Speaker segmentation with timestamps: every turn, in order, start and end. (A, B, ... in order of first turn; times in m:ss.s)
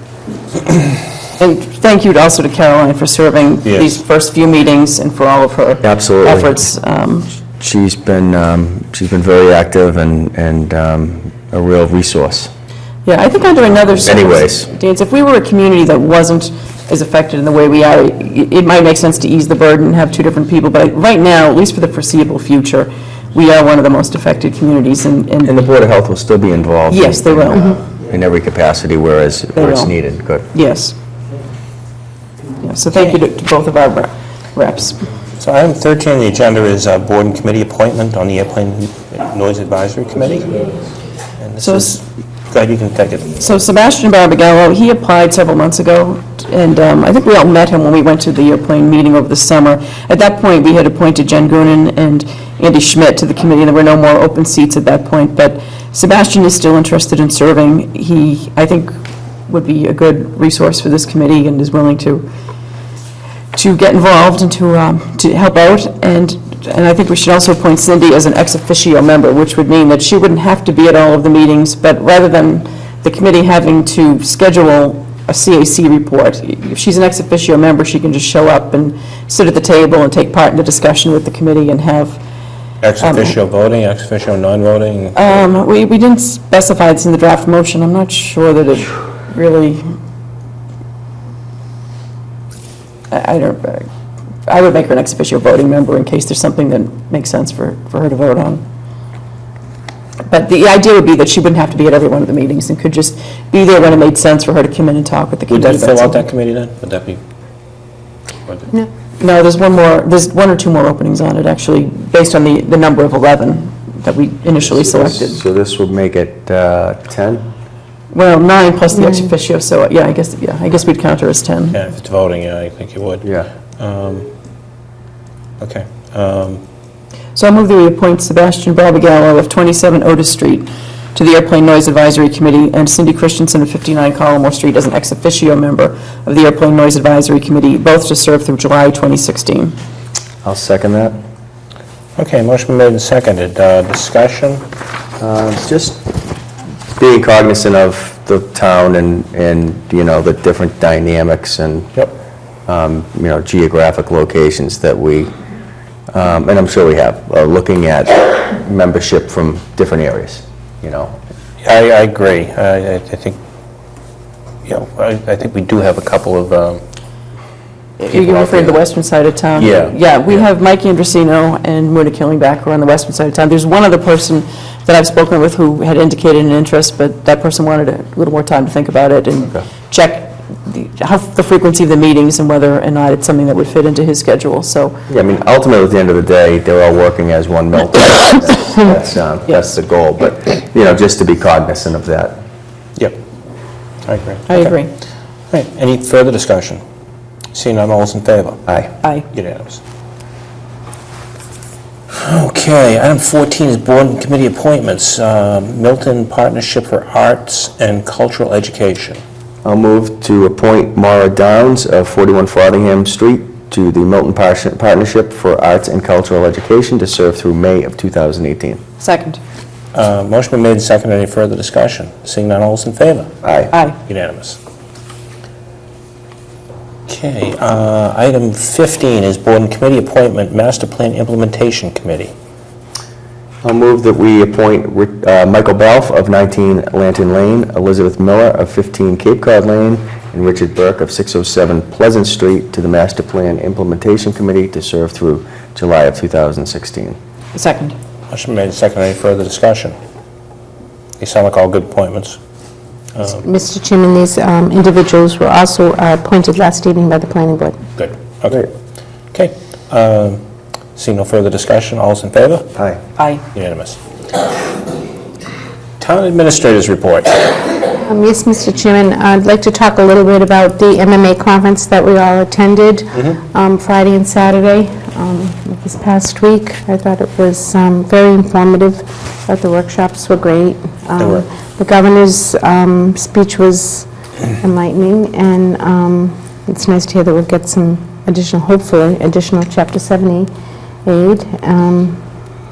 0:01.4-0:07.3 A
0:03.6-0:04.0 B
0:05.8-0:06.5 C
0:07.6-0:12.5 C
0:13.0-0:25.5 A
0:14.0-0:14.7 C
0:25.4-0:30.5 C
0:26.9-0:27.7 A
0:29.6-0:29.9 A
0:30.5-0:31.0 A
0:32.6-0:35.0 A
0:35.4-0:40.7 B
0:41.4-0:43.4 B
0:41.6-0:41.9 A
0:43.4-0:58.9 A
0:59.5-1:02.3 A
1:03.5-1:22.2 A
1:22.8-1:25.4 B
1:23.0-1:23.4 A
1:25.2-1:29.8 A
1:33.1-1:33.9 A
1:34.5-1:38.6 A
1:40.3-1:46.2 A
1:45.5-1:47.2 B
1:49.2-1:55.4 A
1:54.6-1:57.4 C
1:58.1-2:01.8 A
2:01.7-2:04.3 B
2:03.2-2:03.5 C
2:05.6-2:06.6 B
2:07.3-2:19.8 A
2:20.4-2:21.2 C
2:22.2-2:24.6 B
2:25.2-2:26.1 C
2:26.9-2:32.0 C
2:32.7-2:35.3 C
2:36.1-2:41.1 C
2:41.6-2:43.4 B
2:44.6-2:46.8 B
2:48.0-3:05.0 A
2:48.1-2:48.8 B
2:49.6-2:49.9 C
3:05.1-3:12.4 C
3:09.5-3:09.7 A
3:14.0-3:14.8 B
3:14.5-3:14.9 A
3:15.5-3:16.8 B
3:17.5-3:18.6 B
3:19.3-3:19.8 B
3:22.1-3:29.2 B
3:29.6-3:38.8 C
3:39.0-3:39.4 A
3:39.9-3:43.3 B
3:43.4-3:43.7 C
3:44.0-3:44.6 B
3:47.1-3:52.3 B
3:53.6-4:07.2 C
4:07.5-4:07.9 A
4:08.3-4:09.9 B
4:11.2-4:12.4 B
4:13.1-4:13.4 B
4:13.4-4:17.8 D
4:18.0-4:18.7 B
4:19.3-4:20.4 B
4:20.9-4:22.7 B
4:23.2-4:23.4 A
4:23.5-4:24.0 B
4:26.0-4:27.5 B
4:28.0-4:44.1 D
4:41.2-4:41.4 B
4:44.6-4:50.5 D
4:51.0-4:52.2 D